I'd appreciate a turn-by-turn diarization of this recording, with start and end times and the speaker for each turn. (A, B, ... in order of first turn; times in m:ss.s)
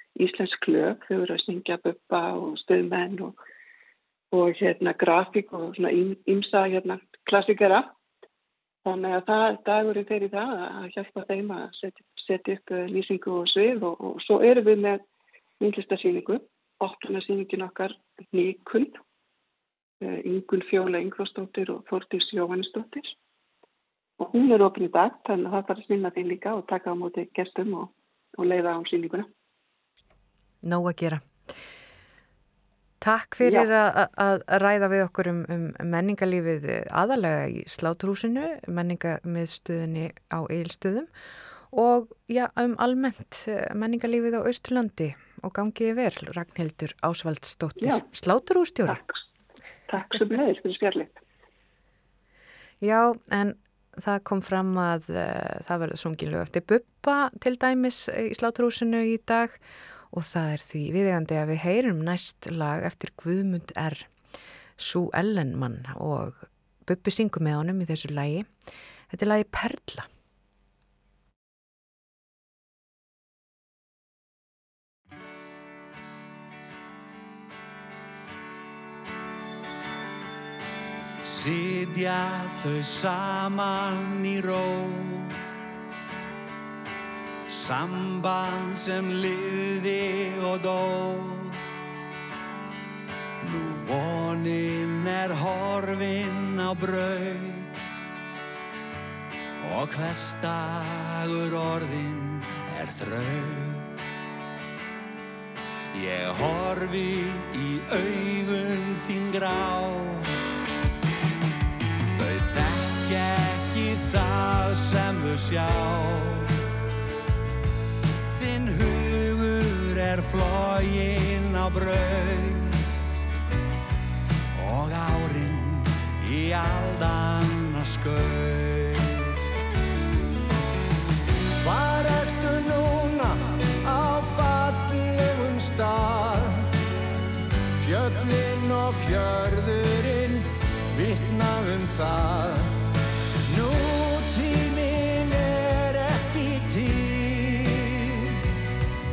0:00.2-0:03.4 A
0:04.3-0:07.9 A
0:08.8-0:15.0 A
0:15.6-0:19.0 A
0:20.0-0:23.1 A
0:24.2-0:29.3 A
0:30.6-0:31.5 B
0:33.0-0:41.1 B
0:33.4-0:33.7 A
0:41.7-0:49.0 B
0:47.8-0:48.0 A
0:49.9-0:51.2 A
0:52.8-0:59.6 B
1:00.1-1:04.1 B
1:04.8-1:08.5 B
1:09.1-1:10.1 B
1:21.2-1:25.4 C
1:27.5-1:31.6 C
1:33.4-1:37.8 C
1:39.6-1:44.0 C
1:45.9-1:50.4 C
1:52.1-1:56.5 C
1:58.3-2:02.9 C
2:04.5-2:09.4 C
2:11.6-2:16.7 C
2:17.8-2:22.8 C
2:23.5-2:28.4 C